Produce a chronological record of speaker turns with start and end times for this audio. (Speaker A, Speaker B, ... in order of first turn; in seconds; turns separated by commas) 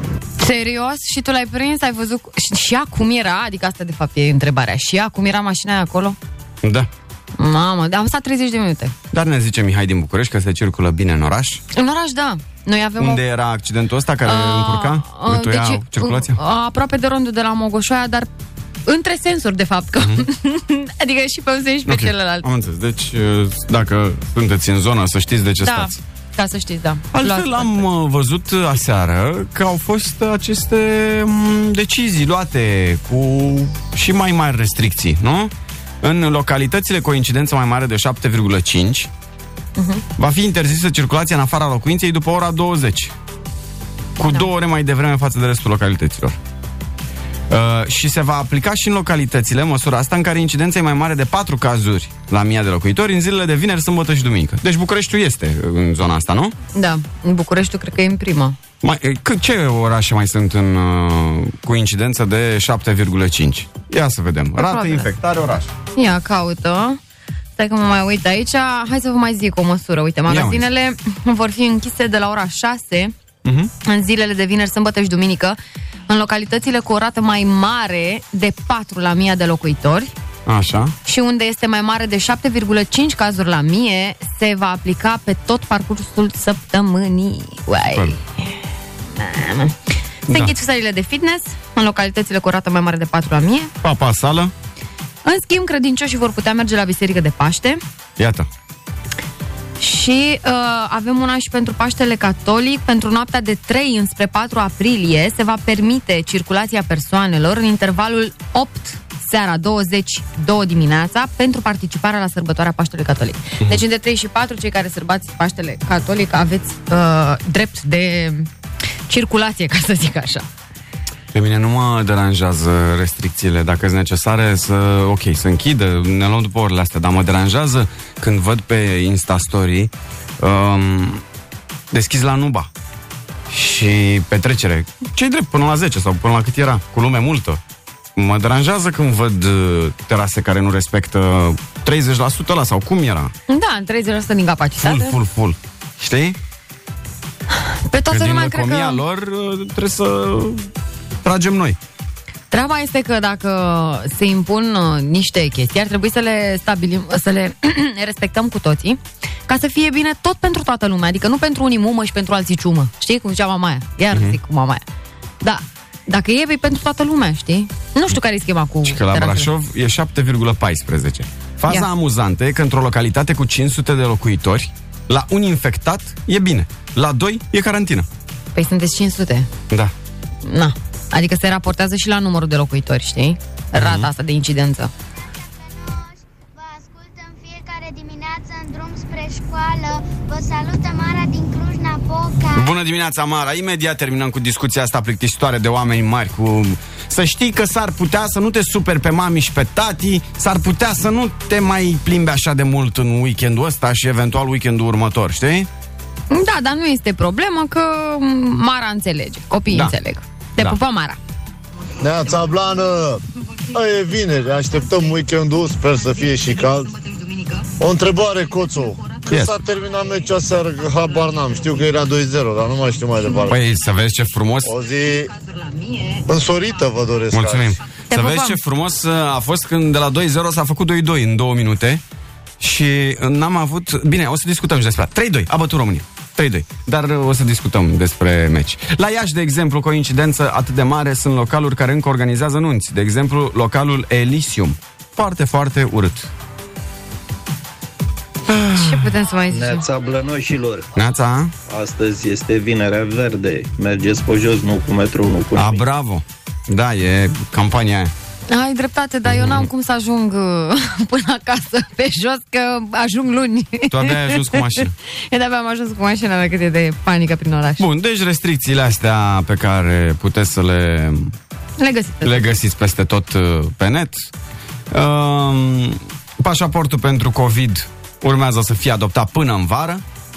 Speaker A: 0.4-6.2, Speaker B: 6.6-6.9, Speaker A: 7.4-8.9, Speaker B: 9.1-11.6, Speaker A: 11.7-13.2, Speaker B: 13.0-16.4, Speaker A: 14.2-18.3, Speaker A: 18.9-22.5, Speaker B: 21.9-26.0, Speaker A: 25.6-27.9, Speaker B: 27.1-39.1, Speaker A: 39.8-40.0, Speaker B: 40.2-43.1, Speaker B: 44.2-46.4, Speaker B: 47.5-56.5, Speaker A: 56.7-58.6, Speaker B: 58.8-65.7, Speaker A: 64.6-65.1, Speaker A: 66.0-67.0, Speaker A: 67.6-73.1, Speaker B: 70.3-70.7, Speaker B: 73.5-73.7, Speaker A: 73.8-75.6, Speaker A: 76.1-80.1, Speaker B: 80.5-81.0, Speaker A: 81.0-88.2, Speaker A: 89.2-89.8, Speaker B: 90.3-90.5, Speaker A: 90.3-93.7, Speaker B: 93.8-94.5, Speaker A: 95.2-97.8, Speaker B: 98.2-98.5, Speaker A: 99.8-118.5, Speaker A: 119.1-120.5, Speaker B: 121.3-131.2, Speaker B: 131.9-132.7, Speaker B: 133.5-137.6, Speaker B: 138.2-143.3, Speaker A: 143.5-145.2, Speaker B: 144.8-146.4, Speaker A: 147.9-149.0, Speaker B: 148.1-150.7, Speaker B: 151.2-151.8, Speaker A: 152.5-164.8, Speaker B: 164.1-164.4, Speaker A: 165.4-169.5, Speaker B: 168.8-178.1, Speaker A: 178.6-179.5, Speaker A: 180.5-184.9, Speaker B: 183.8-184.1, Speaker C: 185.0-192.7, Speaker B: 192.6-205.7, Speaker A: 206.3-211.2, Speaker B: 209.7-209.9, Speaker D: 212.0-216.9, Speaker D: 217.8-223.6, Speaker B: 219.3-219.6, Speaker B: 223.5-224.7, Speaker D: 224.6-225.3, Speaker A: 225.7-226.2, Speaker D: 226.3-227.8, Speaker B: 227.3-232.0, Speaker A: 228.1-228.6, Speaker B: 232.6-246.3, Speaker B: 248.5-249.1, Speaker A: 248.7-249.8, Speaker E: 249.5-250.9, Speaker B: 250.9-251.5, Speaker E: 251.7-255.8, Speaker B: 255.6-258.1, Speaker A: 258.5-267.8, Speaker B: 259.3-259.7, Speaker B: 263.9-264.9, Speaker B: 267.8-271.4, Speaker A: 271.8-272.6, Speaker B: 272.2-274.3, Speaker B: 274.9-280.0